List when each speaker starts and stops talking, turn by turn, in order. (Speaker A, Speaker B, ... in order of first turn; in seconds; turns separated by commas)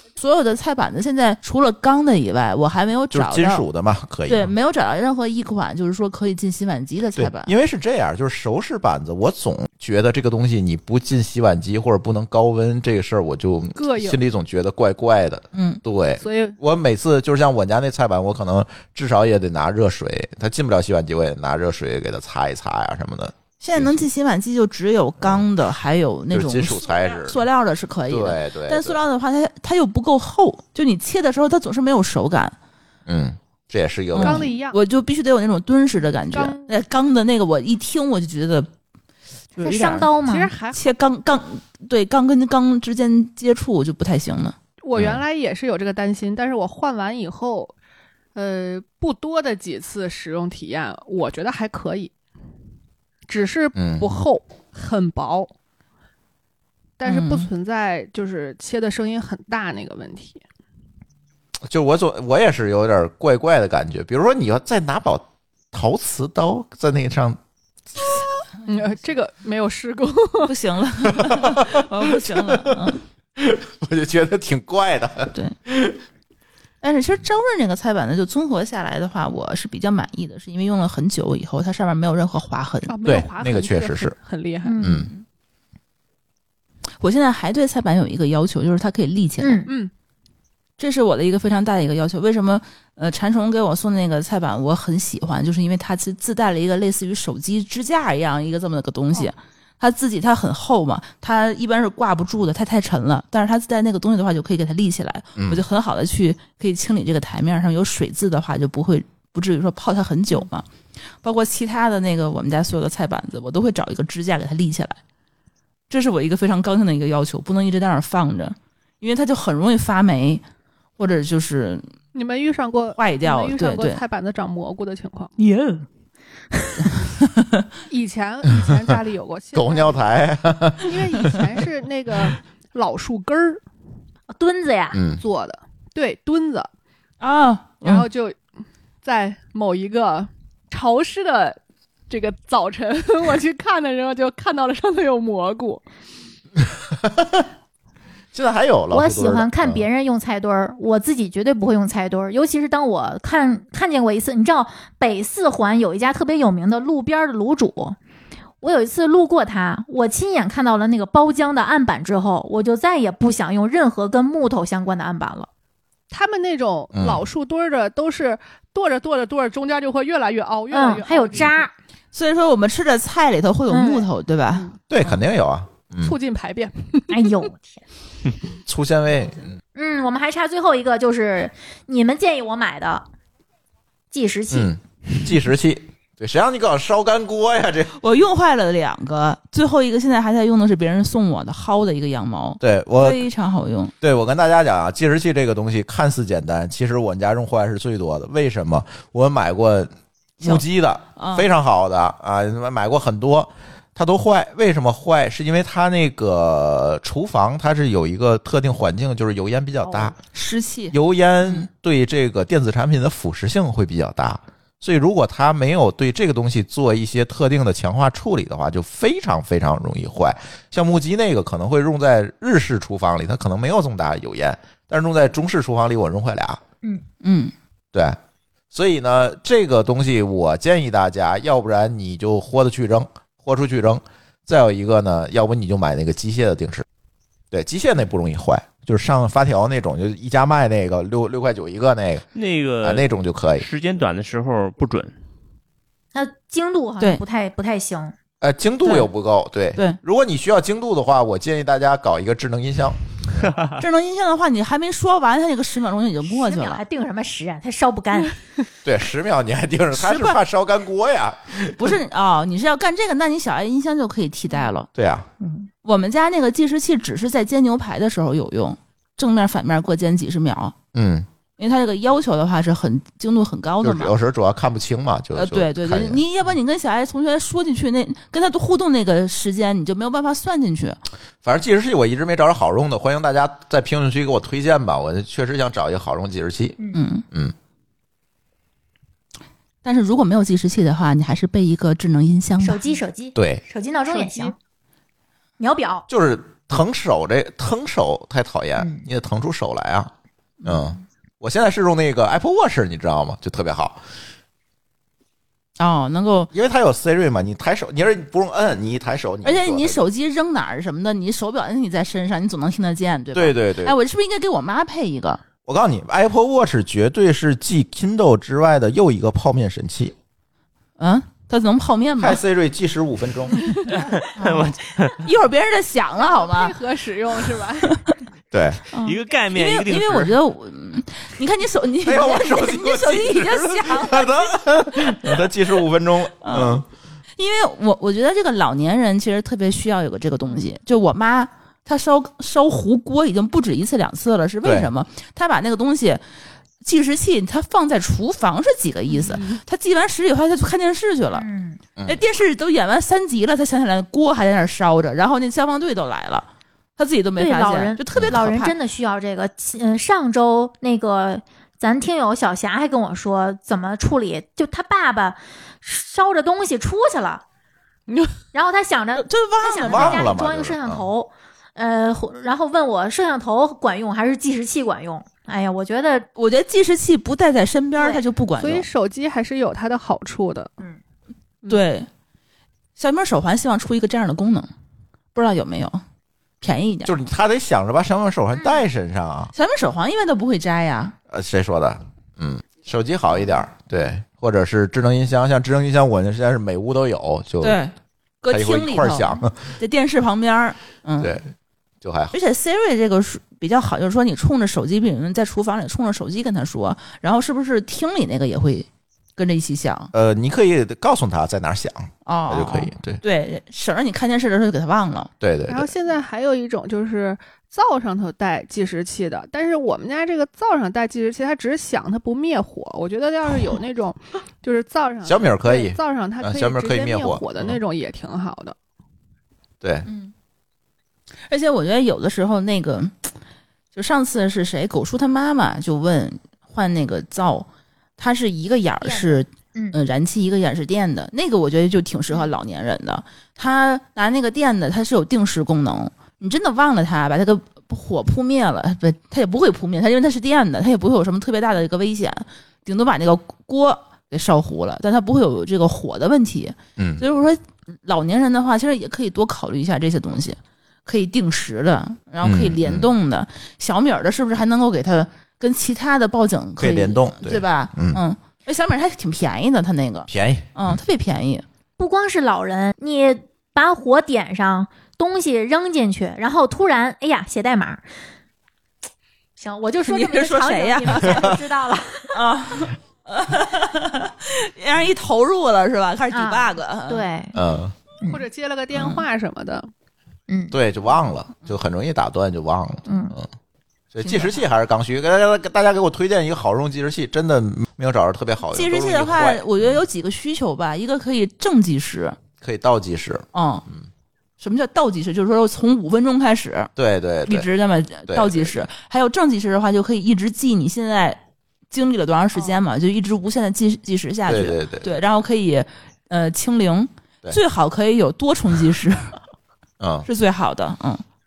Speaker A: 0.2-3.6, Speaker B: 3.1-4.5, Speaker A: 4.3-7.5, Speaker B: 7.2-24.1, Speaker C: 13.8-14.2, Speaker A: 15.5-15.8, Speaker C: 16.2-16.6, Speaker A: 23.6-32.5, Speaker B: 25.2-25.4, Speaker B: 26.3-27.4, Speaker B: 28.1-29.0, Speaker B: 33.1-34.5, Speaker A: 34.1-38.7, Speaker C: 34.2-34.8, Speaker C: 36.3-36.7, Speaker A: 39.5-40.2, Speaker D: 39.6-40.5, Speaker C: 40.2-40.9, Speaker A: 40.7-44.5, Speaker C: 44.8-47.7, Speaker B: 45.0-45.2, Speaker C: 48.4-52.1, Speaker C: 53.3-55.5, Speaker B: 53.8-54.1, Speaker C: 57.0-60.4, Speaker A: 57.1-57.5, Speaker B: 61.7-67.4, Speaker C: 68.7-70.5, Speaker A: 70.5-73.0, Speaker B: 71.1-76.0, Speaker A: 76.8-83.0, Speaker C: 82.8-84.8, Speaker B: 83.0-84.2, Speaker D: 84.7-85.1, Speaker B: 84.8-85.1, Speaker A: 84.9-85.2, Speaker A: 87.0-89.7, Speaker D: 89.4-89.7, Speaker A: 90.8-110.7, Speaker B: 105.4-105.6, Speaker A: 111.2-115.0, Speaker A: 115.9-120.4, Speaker A: 121.0-121.9, Speaker C: 122.1-125.3, Speaker A: 123.0-124.0, Speaker A: 126.8-127.8, Speaker C: 127.9-130.0, Speaker B: 129.5-131.4, Speaker C: 130.8-133.6, Speaker D: 134.3-135.0, Speaker B: 134.9-135.2, Speaker C: 135.2-136.7, Speaker A: 137.2-138.1, Speaker C: 137.8-138.4, Speaker C: 139.0-141.6, Speaker C: 142.1-145.8, Speaker B: 146.6-147.5, Speaker B: 148.3-149.8, Speaker D: 148.9-158.0, Speaker D: 158.6-165.5, Speaker C: 166.1-171.6, Speaker B: 166.9-167.2, Speaker D: 170.7-171.7, Speaker A: 172.1-175.2, Speaker D: 173.7-174.1, Speaker B: 174.9-176.2, Speaker C: 176.0-177.3, Speaker D: 177.1-177.8, Speaker B: 178.7-179.6, Speaker D: 179.8-183.1, Speaker D: 184.1-184.8, Speaker B: 184.5-188.0, Speaker A: 188.0-193.9, Speaker B: 192.6-193.2, Speaker B: 194.0-210.2, Speaker A: 201.2-201.5, Speaker D: 209.8-210.1, Speaker A: 210.2-210.9, Speaker B: 210.9-226.6, Speaker A: 227.2-227.5, Speaker B: 227.9-228.2, Speaker B: 228.7-236.9, Speaker B: 237.5-242.3, Speaker E: 242.3-243.1, Speaker B: 242.8-243.7, Speaker E: 243.6-245.1, Speaker D: 246.2-248.1, Speaker B: 248.4-253.4, Speaker E: 253.4-253.7, Speaker A: 253.8-256.8, Speaker D: 256.2-258.4, Speaker B: 258.8-262.0, Speaker A: 260.0-260.4, Speaker A: 261.8-264.9, Speaker B: 264.9-265.3, Speaker D: 265.4-265.7, Speaker A: 265.8-270.8, Speaker B: 270.9-271.3, Speaker A: 271.6-274.1, Speaker B: 273.8-276.2, Speaker A: 275.4-281.0, Speaker B: 281.4-286.8, Speaker A: 286.9-287.2, Speaker A: 289.8-292.9, Speaker D: 292.6-294.6, Speaker B: 293.4-293.6, Speaker C: 294.1-294.6, Speaker D: 295.6-296.1, Speaker B: 296.1-300.1, Speaker D: 298.8-299.0, Speaker B: 300.6-304.0, Speaker A: 305.8-306.5, Speaker B: 306.5-310.1, Speaker A: 309.4-315.4, Speaker B: 313.3-314.0, Speaker B: 315.6-320.2, Speaker A: 321.0-322.4, Speaker B: 322.2-323.6, Speaker A: 323.9-326.8, Speaker E: 323.9-325.3, Speaker C: 326.2-328.0, Speaker A: 327.8-328.1, Speaker B: 328.5-328.8, Speaker A: 328.9-335.2, Speaker E: 329.0-330.3, Speaker B: 332.1-336.9, Speaker A: 336.4-336.8, Speaker A: 337.4-346.2, Speaker B: 344.6-344.9, Speaker A: 346.8-351.5, Speaker D: 351.3-351.8, Speaker B: 352.0-352.2, Speaker A: 352.1-358.8, Speaker D: 357.4-367.4, Speaker B: 358.1-358.4, Speaker C: 368.1-368.4, Speaker D: 368.5-376.3, Speaker A: 369.2-370.4, Speaker B: 369.8-371.1, Speaker A: 376.4-378.9, Speaker C: 378.6-380.8, Speaker A: 381.7-382.1, Speaker A: 383.0-384.7, Speaker A: 385.3-386.0, Speaker A: 386.6-387.1, Speaker B: 387.1-389.5, Speaker A: 389.5-391.2, Speaker B: 391.3-397.8, Speaker A: 397.6-401.4, Speaker B: 398.5-399.6, Speaker B: 401.2-401.5, Speaker B: 402.0-402.4, Speaker A: 402.3-410.1, Speaker B: 410.1-413.2, Speaker A: 412.3-415.3, Speaker B: 415.4-415.9, Speaker C: 415.7-428.8, Speaker B: 425.2-427.8, Speaker B: 429.8-430.1, Speaker D: 430.1-430.3, Speaker A: 431.5-433.3, Speaker A: 433.9-437.7, Speaker A: 438.2-471.6, Speaker D: 439.0-440.0, Speaker B: 457.0-457.2, Speaker B: 462.4-463.1, Speaker B: 466.8-468.2, Speaker B: 470.3-471.0, Speaker D: 472.0-478.0, Speaker D: 479.6-482.4, Speaker A: 480.1-481.6, Speaker A: 482.3-487.3, Speaker D: 486.3-487.6, Speaker B: 487.6-487.9, Speaker C: 488.3-489.9, Speaker D: 488.9-489.2, Speaker D: 490.5-490.7, Speaker B: 490.7-493.5, Speaker D: 493.1-493.3, Speaker B: 494.1-500.0, Speaker A: 494.2-494.6, Speaker A: 498.7-502.4, Speaker B: 502.6-503.5, Speaker A: 503.5-503.9, Speaker A: 504.6-506.9, Speaker B: 507.0-507.7, Speaker A: 507.5-519.4, Speaker B: 508.3-508.8, Speaker B: 514.5-515.1, Speaker B: 520.0-520.3, Speaker A: 520.2-521.2